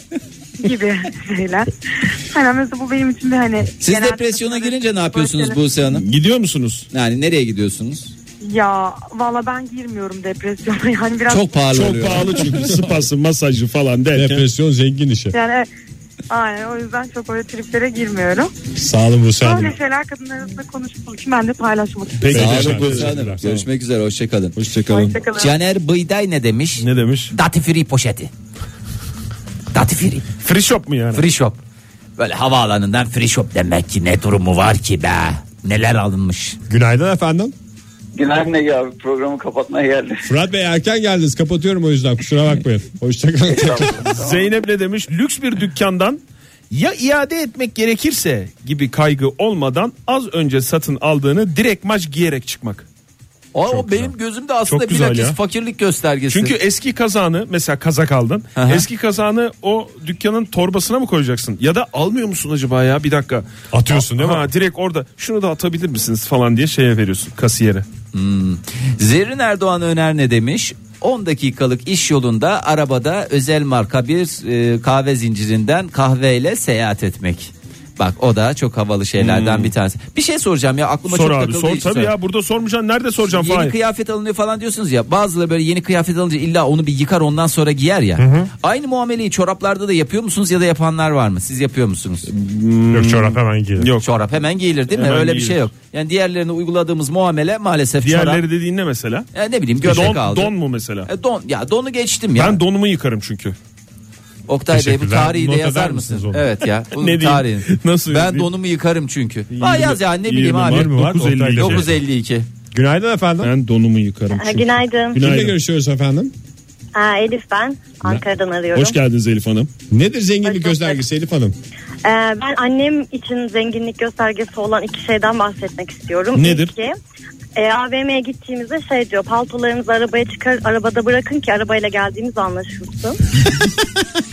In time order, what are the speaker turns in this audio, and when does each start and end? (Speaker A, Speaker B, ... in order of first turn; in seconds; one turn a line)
Speaker A: 0.6-5.6
Speaker B: 3.8-6.0
Speaker C: 5.9-6.9
Speaker B: 6.9-8.1
Speaker A: 8.4-11.7
Speaker B: 11.3-12.7
Speaker C: 11.7-14.4
Speaker D: 14.1-15.3
Speaker A: 15.3-15.7
Speaker A: 16.3-18.5
Speaker D: 18.7-19.8
Speaker A: 19.4-22.3
Speaker C: 22.2-23.6
Speaker D: 22.3-23.4
Speaker B: 22.3-24.6
Speaker C: 24.6-25.2
Speaker A: 24.9-25.5
Speaker B: 25.3-28.3
Speaker C: 26.8-27.3
Speaker B: 29.7-30.3
Speaker C: 30.4-31.2
Speaker B: 31.1-31.6
Speaker B: 32.2-36.6
Speaker D: 36.7-37.5
Speaker E: 38.1-40.2
Speaker D: 40.2-44.2
Speaker B: 43.7-44.1
Speaker C: 44.1-52.9
Speaker B: 53.5-56.6
Speaker C: 54.7-55.4
Speaker C: 56.3-67.8
Speaker B: 58.5-58.9
Speaker D: 63.7-64.5
Speaker B: 68.1-82.1
Speaker C: 79.2-79.7
Speaker C: 81.1-83.8
Speaker B: 83.2-92.3
Speaker D: 88.2-88.5
Speaker C: 92.3-94.0
Speaker D: 92.9-93.9
Speaker B: 94.0-98.4
Speaker C: 94.9-95.6
Speaker C: 98.0-99.3
Speaker B: 99.3-100.5
Speaker C: 99.8-101.1
Speaker B: 101.0-102.6
Speaker C: 102.3-103.5
Speaker B: 104.5-111.0
Speaker D: 104.7-106.6
Speaker C: 106.9-108.5
Speaker C: 109.5-111.9
Speaker D: 110.6-112.0
Speaker B: 111.5-112.5
Speaker D: 112.7-113.5
Speaker C: 113.4-115.6
Speaker F: 114.3-115.2
Speaker D: 115.1-116.3
Speaker F: 116.9-119.0
Speaker C: 118.7-119.7
Speaker D: 119.9-121.5
Speaker F: 120.4-121.0
Speaker F: 122.0-127.0
Speaker C: 126.3-126.7
Speaker F: 127.5-133.2